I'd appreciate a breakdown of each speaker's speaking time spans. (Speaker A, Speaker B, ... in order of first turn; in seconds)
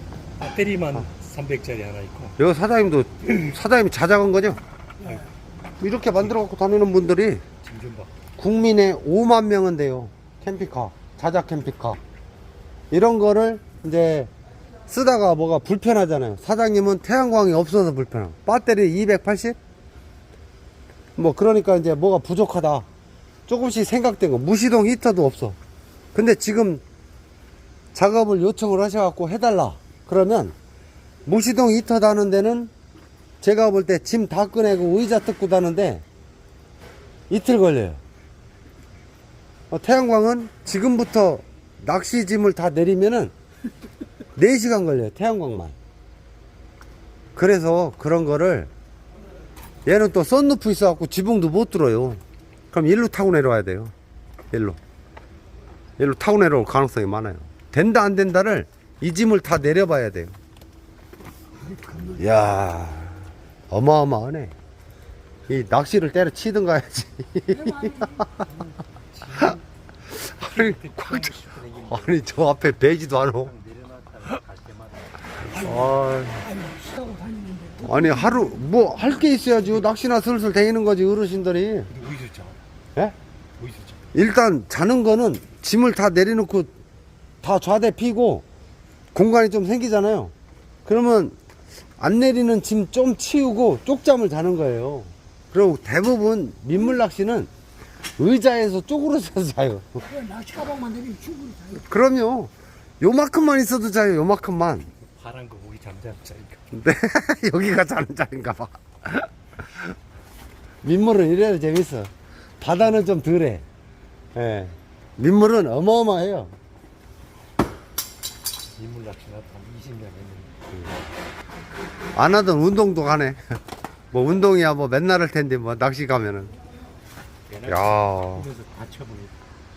Speaker A: 0.4-2.4, 5.0-5.3, 7.6-8.1, 69.1-69.6, 70.3-72.2, 73.4-75.8, 81.9-82.6, 83.6-84.0, 105.1-106.7, 118.8-120.8, 127.5-129.4
Speaker B: 2.4-4.6, 5.8-7.4, 8.4-12.0, 12.9-14.3, 14.9-19.6, 21.2-22.9, 23.5-25.6, 26.1-26.8, 27.9-30.5, 31.2-32.7, 33.4-36.0, 37.3-38.0, 39.7-43.3, 44.3-45.8, 47.3-48.7, 49.9-52.2, 52.7-53.9, 54.5-54.8, 56.0-60.4, 62.1-64.5, 65.5-68.4, 70.1-73.5, 75.5-76.5, 77.8-81.9, 84.1-86.7, 87.4-88.4, 89.1-90.3, 90.8-91.3, 92.0-97.5, 98.2-100.1, 101.7-104.9, 106.7-109.9, 110.8-113.6, 114.3-116.5, 122.1-123.4, 124.1-126.5, 127.7-128.5
Speaker C: 61.6-62.2, 75.6-78.7, 100.0-101.8